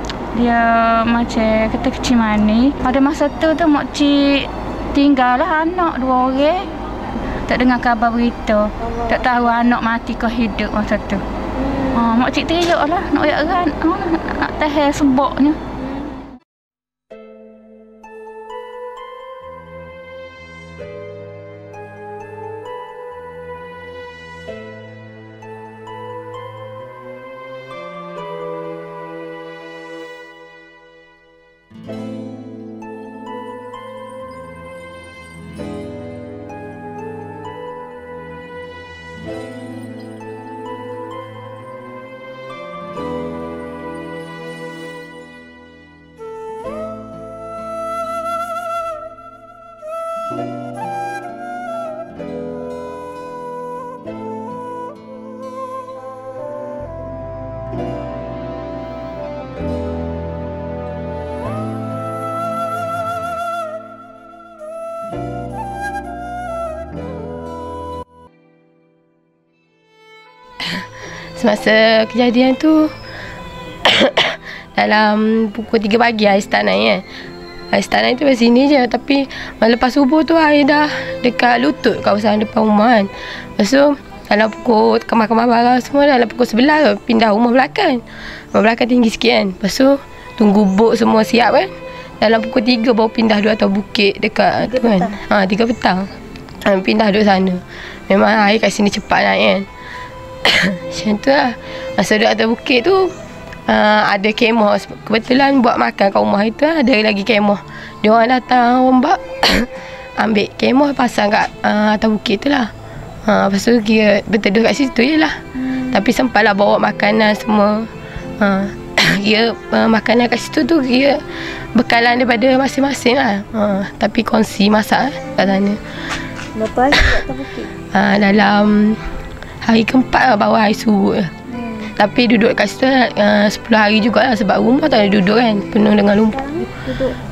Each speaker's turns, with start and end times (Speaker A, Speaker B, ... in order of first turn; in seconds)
Speaker A: 0.3-6.7, 7.3-11.2, 11.9-15.6
Speaker B: 8.8-9.3, 11.5-12.1, 15.8-16.1, 94.7-95.1, 126.5-127.7, 131.6-131.9, 136.3-137.2
Speaker C: 70.6-73.0, 73.8-77.0, 77.7-99.7, 100.4-103.1, 103.7-112.7, 113.2-125.9, 127.8-129.1, 129.6-136.5